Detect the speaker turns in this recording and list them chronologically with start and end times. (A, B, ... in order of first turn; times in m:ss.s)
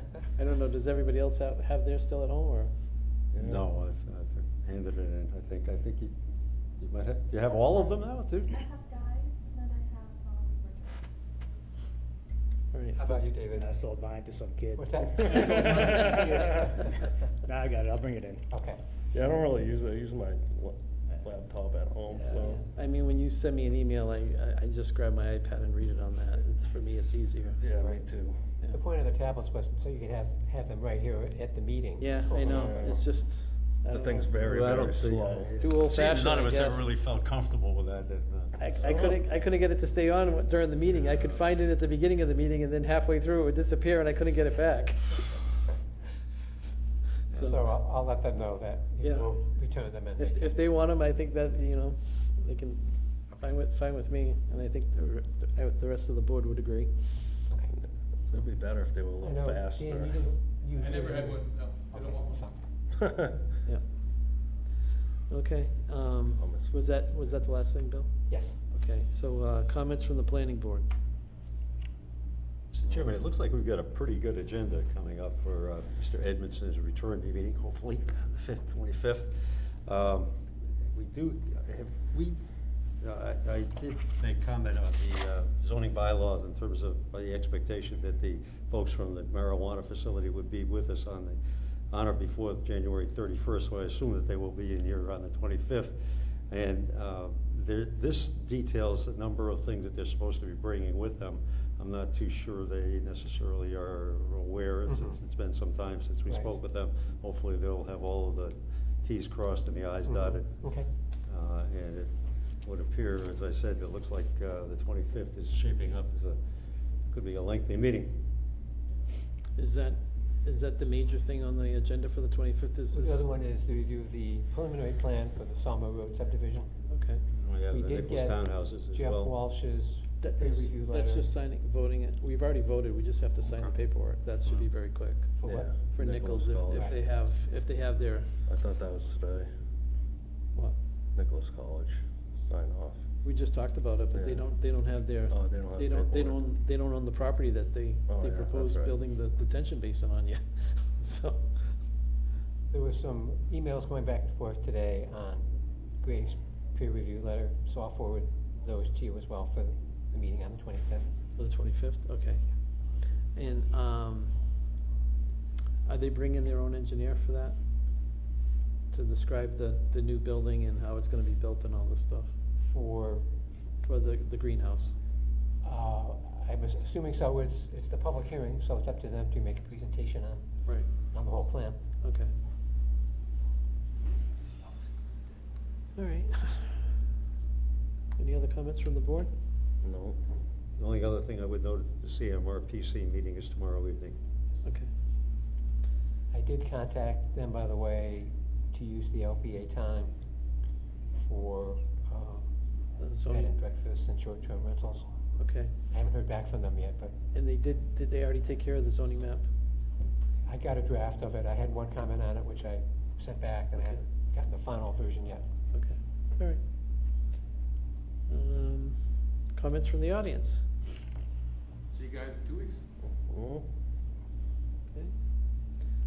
0:00.3-0:02.7 A
0:03.3-0:03.6 B
0:03.4-0:06.1 C
0:06.8-0:08.7 C
0:07.5-0:11.0 D
0:12.7-0:13.2 A
0:13.0-0:13.8 E
0:13.6-0:18.5 F
0:14.8-0:15.9 E
0:15.4-0:15.9 A
0:15.5-0:16.6 B
0:18.5-0:18.8 E
0:19.1-0:22.6 B
0:22.2-0:27.6 A
0:27.6-0:28.4 B
0:27.8-0:28.0 E
0:28.7-0:32.8 E
0:32.0-0:34.8 A
0:32.4-0:33.1 B
0:33.8-0:35.6 B
0:34.4-0:38.6 C
0:35.6-0:36.8 A
0:38.6-0:45.4 A
0:38.8-0:39.2 B
0:47.3-0:47.6 A
0:47.3-0:50.6 E
0:49.0-0:57.5 A
0:57.7-1:00.2 B
0:59.2-1:02.6 E
1:00.8-1:02.4 G
1:03.0-1:03.4 B
1:05.3-1:10.9 A
1:06.4-1:06.7 B
1:08.3-1:08.6 E
1:12.7-1:22.4 C
1:23.0-1:31.4 C
1:31.9-1:50.6 C
1:44.8-1:45.2 E
1:46.3-1:46.6 E
1:50.0-1:50.9 E
1:51.2-1:56.4 C
1:57.1-1:58.2 C
1:59.6-2:03.2 A
2:02.9-2:06.7 E
2:06.9-2:07.2 A
2:07.3-2:09.3 C
2:07.7-2:11.3 E
2:10.2-2:18.3 A
2:15.4-2:15.7 E
2:15.4-2:16.9 B
2:16.7-2:17.0 E
2:18.4-2:19.5 B
2:21.1-2:23.1 B
2:23.2-2:31.7 A
2:24.1-2:24.5 B
2:25.3-2:26.4 B
2:28.1-2:29.0 B
2:32.7-2:41.1 E
2:41.4-2:42.8 A
2:43.3-2:44.4 A
2:45.8-2:47.6 A
2:48.9-2:52.3 A
2:52.7-2:53.3 E
2:53.8-2:55.0 A
2:55.6-3:00.5 E
3:01.1-3:01.8 E
3:02.0-3:02.3 A
3:06.0-3:07.0 A
3:08.2-3:09.3 A
3:09.8-3:10.2 B
3:10.8-3:14.2 C
3:14.6-3:14.9 A
3:16.3-3:20.1 E
3:21.2-3:22.5 E
3:23.0-3:23.5 A
3:23.3-3:25.1 E
3:25.4-3:25.7 A
3:25.9-3:27.1 E
3:27.3-3:29.5 A
3:30.4-3:35.4 E
3:35.7-3:36.6 A
3:38.3-3:40.7 A
3:41.9-3:42.8 G
3:43.3-3:43.7 B